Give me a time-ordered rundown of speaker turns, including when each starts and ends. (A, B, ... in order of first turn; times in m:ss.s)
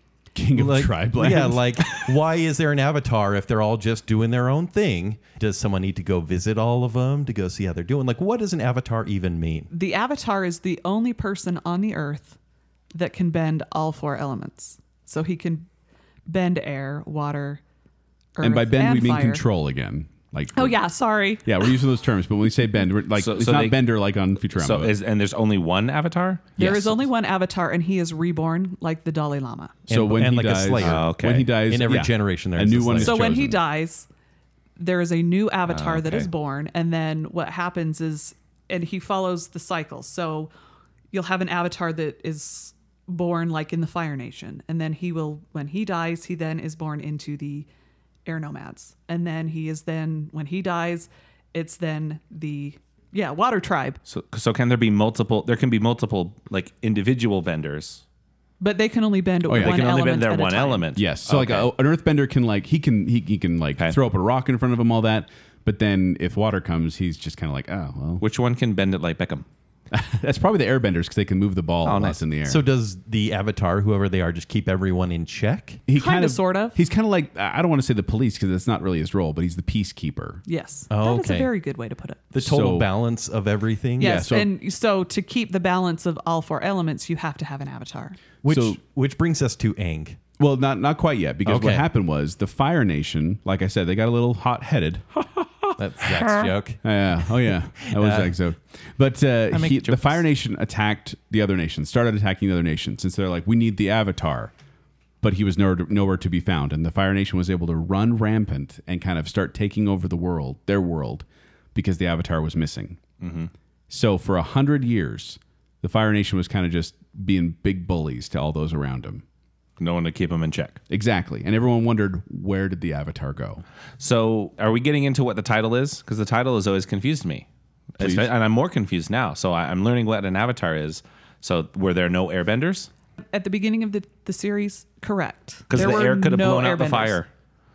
0:00.4-0:02.2 A
0:00.5-0:09.7 B
0:09.7-0:12.4 C
0:12.9-0:15.7 C
0:16.3-0:17.6 C
0:18.4-0:19.4 C
0:18.4-0:20.8 A
0:20.6-0:21.7 C
0:21.4-0:25.0 A
0:23.2-0:23.9 D
0:24.5-0:26.7 D
0:26.6-0:29.8 C
0:29.9-0:33.4 B
0:29.9-0:33.6 A
0:30.8-0:31.5 D
0:33.0-0:34.1 C
0:34.8-0:40.5 C
0:35.7-0:36.3 D
0:41.1-0:47.7 C
0:48.3-0:54.0 C
0:54.1-0:58.0 D
0:58.6-1:00.9 C
0:59.5-0:59.8 A
0:59.5-1:01.7 D
1:01.0-1:08.2 A
1:08.2-1:09.5 D
1:09.9-1:12.6 A
1:11.8-1:12.2 D
1:12.4-1:15.8 B
1:15.9-1:20.4 A
1:15.9-1:16.8 C
1:20.5-1:22.2 C
1:20.9-1:21.5 B
1:22.3-1:24.3 B
1:22.4-1:22.9 A
1:24.0-1:24.5 A
1:24.0-1:28.2 C
1:28.4-1:30.2 B
1:28.5-1:28.8 A
1:30.4-1:35.4 A
1:31.4-1:31.9 B
1:35.8-1:36.8 B
1:36.8-1:44.5 A
1:37.8-1:38.3 B
1:39.5-1:40.2 D
1:45.2-1:53.0 A
1:53.2-1:53.5 D
1:53.9-1:59.2 A
1:59.8-2:00.8 D
2:00.9-2:03.6 A
2:04.0-2:07.5 D
2:08.0-2:12.9 D
2:08.0-2:08.3 A
2:13.3-2:17.2 C
2:15.7-2:17.3 D